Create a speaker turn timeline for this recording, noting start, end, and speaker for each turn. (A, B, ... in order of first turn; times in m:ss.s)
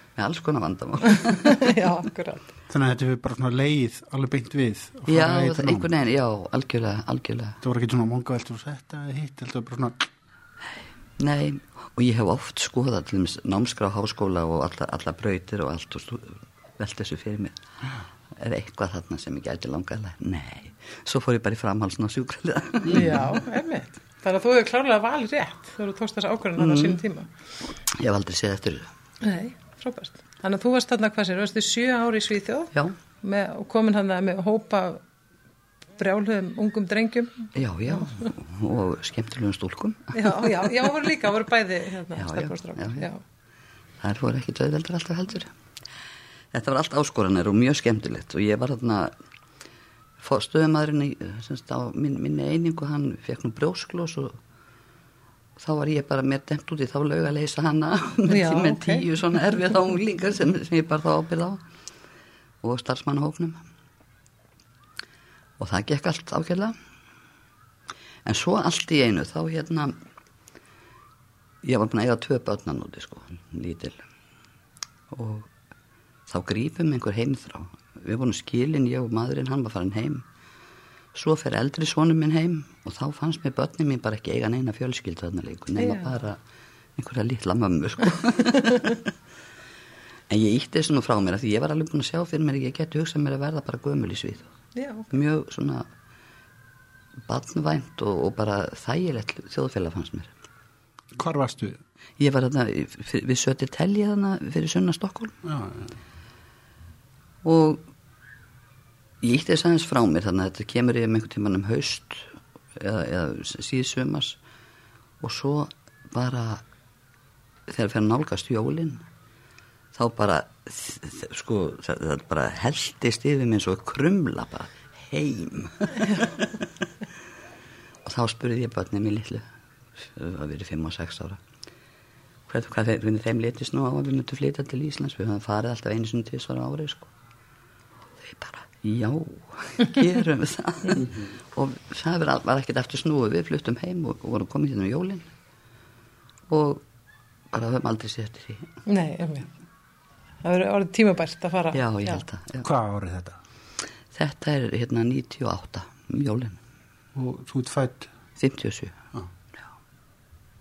0:00.2-0:01.7 A
0:01.2-0:02.5 B
0:02.7-0:05.9 C
0:05.1-0:07.6 A
0:07.6-0:10.1 C
0:11.2-0:17.7 A
0:18.4-0:23.4 A
0:22.9-0:27.3 B
0:26.6-0:27.0 A
0:27.9-0:28.9 A
0:29.2-0:35.0 B
0:36.0-0:38.2 B
0:37.6-0:40.5 A
0:40.1-0:43.2 B
0:42.2-0:43.1 A
0:44.0-0:45.5 A
0:46.5-0:49.1 A
0:50.2-0:54.4 A
0:55.6-1:01.6 A
0:58.3-0:59.0 B
1:02.6-1:03.6 A
1:05.6-1:06.8 A
1:08.2-1:10.0 A
1:11.6-1:14.0 A
1:15.1-1:15.5 A
1:16.3-1:20.2 A
1:21.1-1:26.4 A
1:25.8-1:26.1 B
1:27.0-1:29.1 A
1:30.3-1:34.5 A
1:34.8-1:35.1 B
1:35.1-1:35.9 A
1:37.3-1:40.3 A
1:41.2-1:41.8 C
1:42.2-1:45.4 A
1:45.4-1:45.9 C
1:47.4-1:47.8 A
1:49.2-1:54.4 A
1:55.2-1:56.6 A
1:57.7-1:59.0 A
1:59.9-2:06.5 A
2:08.0-2:09.5 A
2:10.0-2:11.4 A
2:12.5-2:17.1 A
2:18.2-2:25.3 A
2:26.5-2:26.8 A
2:27.5-2:28.7 A
2:28.9-2:29.5 B
2:30.4-2:32.2 B
2:31.7-2:32.7 A
2:32.6-2:33.4 C
2:34.1-2:36.6 A
2:37.2-2:38.1 C
2:38.4-2:39.0 A